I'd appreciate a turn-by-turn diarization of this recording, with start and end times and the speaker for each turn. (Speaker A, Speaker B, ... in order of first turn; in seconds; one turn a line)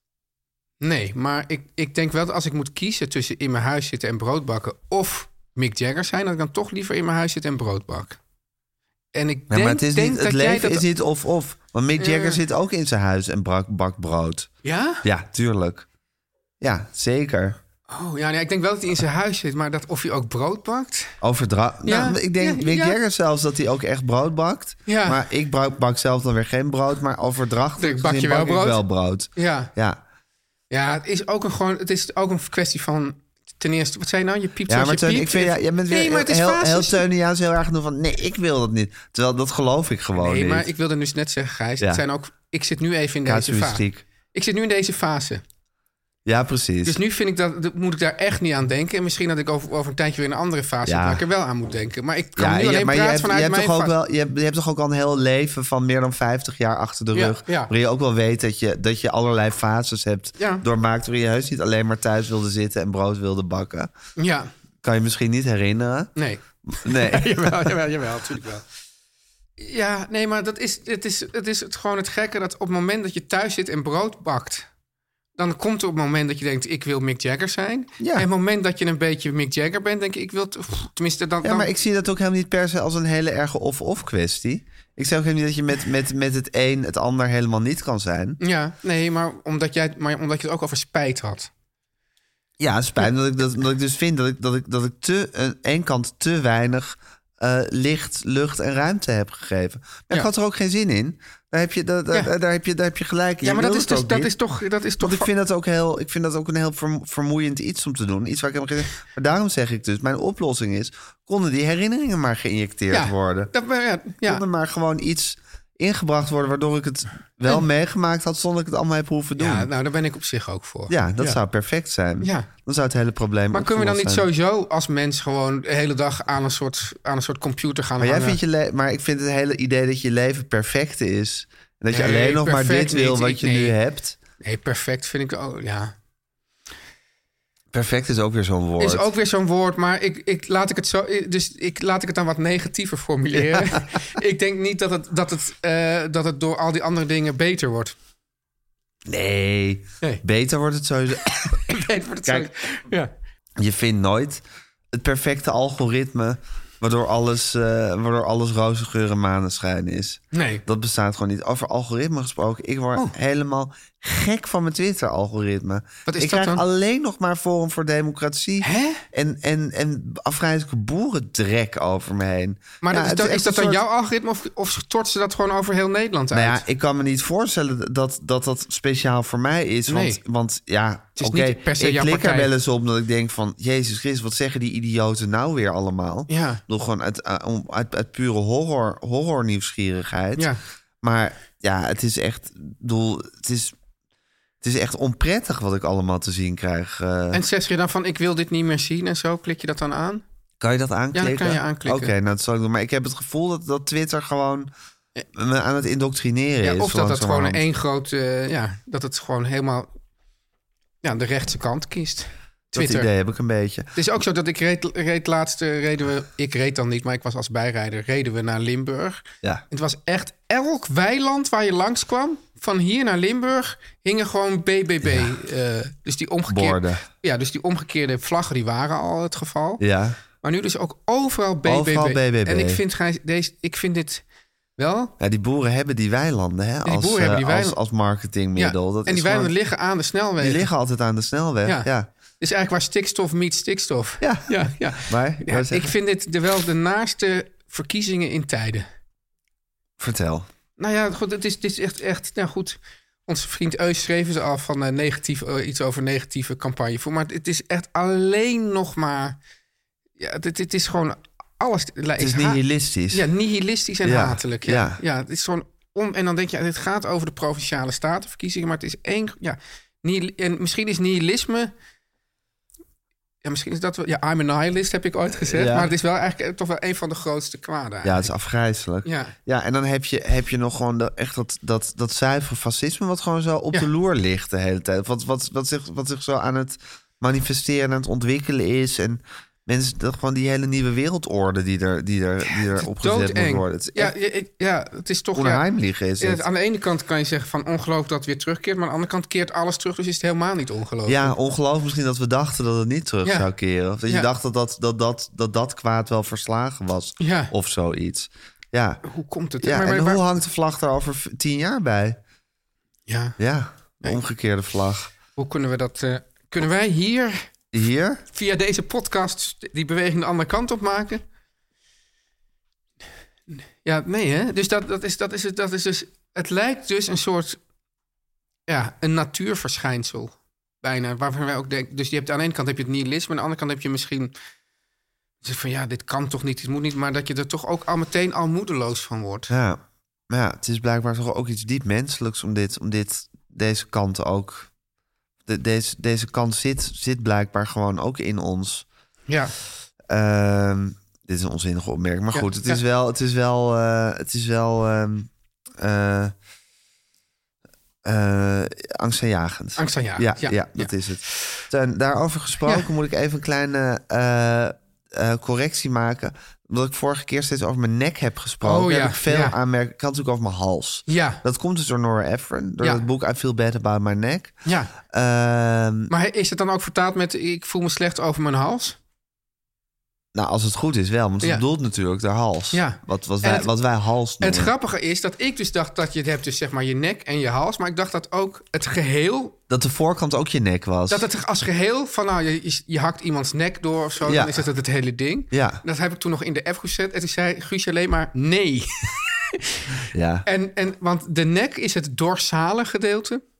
Speaker A: 0.8-8.2
Speaker A: 9.1-10.9
Speaker B: 9.5-14.5
Speaker A: 12.0-12.4
Speaker A: 14.6-15.1
Speaker B: 15.0-15.9
Speaker B: 16.6-17.6
Speaker A: 17.9-21.2
Speaker B: 21.2-30.0
Speaker A: 21.9-23.0
Speaker A: 24.9-25.2
Speaker A: 27.8-28.8
Speaker A: 29.4-29.7
Speaker A: 30.7-37.0
Speaker B: 34.7-40.7
Speaker A: 40.1-45.4
Speaker B: 43.2-44.0
Speaker B: 46.3-47.0
Speaker A: 46.8-53.9
Speaker B: 50.8-51.2
Speaker B: 52.4-63.9
Speaker A: 57.1-57.7
Speaker A: 60.4-60.6
Speaker A: 64.2-64.5
Speaker B: 64.8-66.1
Speaker A: 66.2-68.7
Speaker B: 66.6-67.7
Speaker A: 69.6-74.7
Speaker A: 75.4-81.7
Speaker B: 78.0-78.3
Speaker B: 81.4-88.4
Speaker A: 88.4-91.5
Speaker B: 92.6-104.3
Speaker A: 103.4-105.3
Speaker B: 105.0-113.5
Speaker A: 112.9-114.4
Speaker B: 114.2-119.7
Speaker A: 119.4-121.4
Speaker B: 120.9-124.3
Speaker A: 122.2-122.5
Speaker A: 123.5-128.4
Speaker B: 128.0-134.2
Speaker A: 131.9-133.8
Speaker A: 134.4-135.9
Speaker B: 137.7-139.1
Speaker A: 138.8-147.9
Speaker B: 149.1-151.6
Speaker A: 151.3-153.1
Speaker B: 153.6-154.4
Speaker B: 154.9-173.8
Speaker A: 160.3-160.6
Speaker A: 166.1-166.6
Speaker A: 168.6-169.0
Speaker A: 172.8-176.7
Speaker B: 176.3-190.5
Speaker A: 179.9-180.2
Speaker A: 181.2-182.5
Speaker A: 186.3-186.6
Speaker B: 191.0-193.8
Speaker B: 194.6-197.4
Speaker A: 197.3-200.2
Speaker B: 200.6-204.7
Speaker A: 201.1-202.1
Speaker B: 205.3-207.6
Speaker A: 206.6-209.9
Speaker A: 211.0-213.1
Speaker B: 212.8-213.9
Speaker A: 213.9-229.8
Speaker B: 225.0-225.3
Speaker B: 226.5-227.1
Speaker B: 229.8-230.2
Speaker A: 230.4-234.2
Speaker B: 231.7-232.8
Speaker A: 234.8-235.2
Speaker B: 235.2-239.5
Speaker A: 236.8-237.8
Speaker A: 238.6-240.7
Speaker B: 240.4-242.1
Speaker A: 242.4-248.9
Speaker B: 244.2-244.5
Speaker B: 245.0-245.9
Speaker B: 250.0-250.5
Speaker A: 250.8-259.4
Speaker A: 260.2-271.7
Speaker B: 262.2-263.2
Speaker B: 264.0-265.0
Speaker A: 273.4-278.3
Speaker B: 275.5-275.9
Speaker B: 278.0-294.1
Speaker A: 279.0-279.4
Speaker A: 292.5-295.6
Speaker B: 295.4-296.4
Speaker A: 296.2-301.4
Speaker B: 301.1-309.0
Speaker A: 303.2-303.5
Speaker A: 307.2-307.5
Speaker A: 309.0-310.2
Speaker B: 309.6-312.2
Speaker A: 313.1-313.4
Speaker B: 313.4-315.1
Speaker A: 315.4-317.5
Speaker B: 317.7-318.2
Speaker A: 318.3-321.2
Speaker A: 323.5-327.6
Speaker A: 328.7-334.4
Speaker A: 335.4-339.5
Speaker B: 339.5-344.7
Speaker B: 345.5-348.9
Speaker A: 349.3-349.5
Speaker B: 350.1-355.3
Speaker A: 352.3-352.8
Speaker B: 355.8-356.3
Speaker B: 358.1-374.6
Speaker A: 359.8-360.9
Speaker A: 368.6-369.6
Speaker A: 371.1-371.4
Speaker A: 374.6-374.9
Speaker B: 375.1-376.1
Speaker A: 376.1-379.0
Speaker B: 380.3-384.7
Speaker A: 382.7-383.7
Speaker A: 384.4-389.6
Speaker B: 389.7-391.3
Speaker A: 391.1-403.4
Speaker B: 394.2-394.6
Speaker B: 395.5-395.8
Speaker B: 400.1-400.5